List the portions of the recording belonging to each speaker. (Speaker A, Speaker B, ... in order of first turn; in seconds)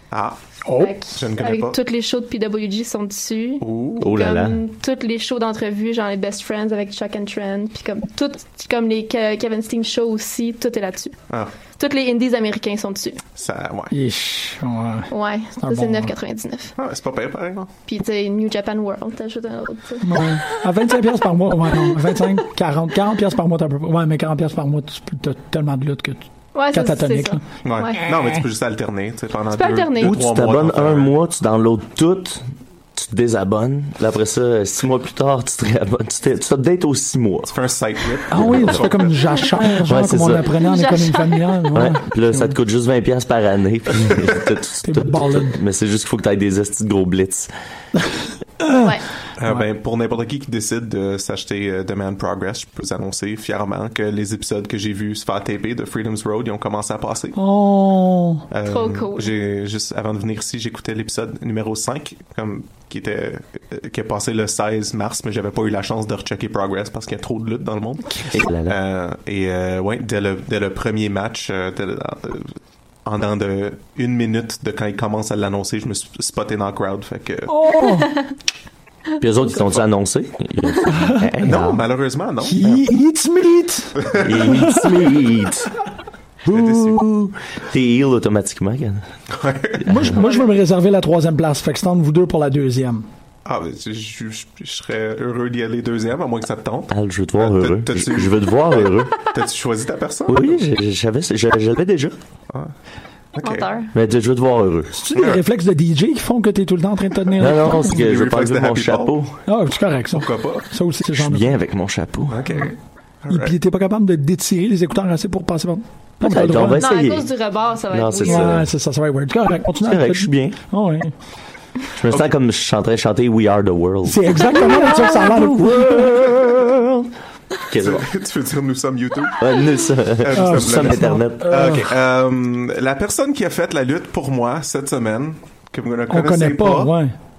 Speaker A: 0.1-0.4, 1.1-1.8, 3.6-4.1, 13.4-13.9, 16.8-17.7, 27.6-31.1, 37.5-39.2, 49.4-57.4, 58.5-72.5, 73.0-77.5, 81.4-82.8, 84.0-84.3, 86.5-87.0, 89.3-89.9, 93.4-100.6, 103.3-103.7, 107.8-109.2, 110.1-110.7, 112.3-113.5, 127.7-129.5, 130.1-136.9
Speaker B: 0.6-0.9, 13.9-16.1, 20.0-27.4, 38.3-42.5, 44.8-45.6, 48.6-48.9, 57.3-58.4, 77.5-78.2, 80.9-81.3, 82.4-84.9, 89.8-93.0, 105.0-107.9, 109.5-111.5, 113.3-116.8, 118.2-121.1, 124.0-126.6, 130.3-131.9, 136.1-137.1
Speaker C: 0.8-11.1, 11.8-13.2, 15.1-16.7, 17.9-20.4, 26.5-28.0, 29.5-30.2, 40.6-41.5, 58.6-59.3, 103.4-103.9, 116.7-118.5
Speaker D: 4.0-4.6, 30.0-32.4, 33.0-37.5, 38.3-38.9, 39.8-40.5, 41.7-47.5, 68.3-68.8, 79.2-81.8, 84.2-85.7, 86.5-89.0, 96.9-99.1, 100.3-102.2, 103.9-105.0, 107.4-109.3, 111.2-112.5, 116.2-117.3, 117.9-118.7, 119.8-120.6, 122.0-127.1, 127.7-128.1, 129.4-131.7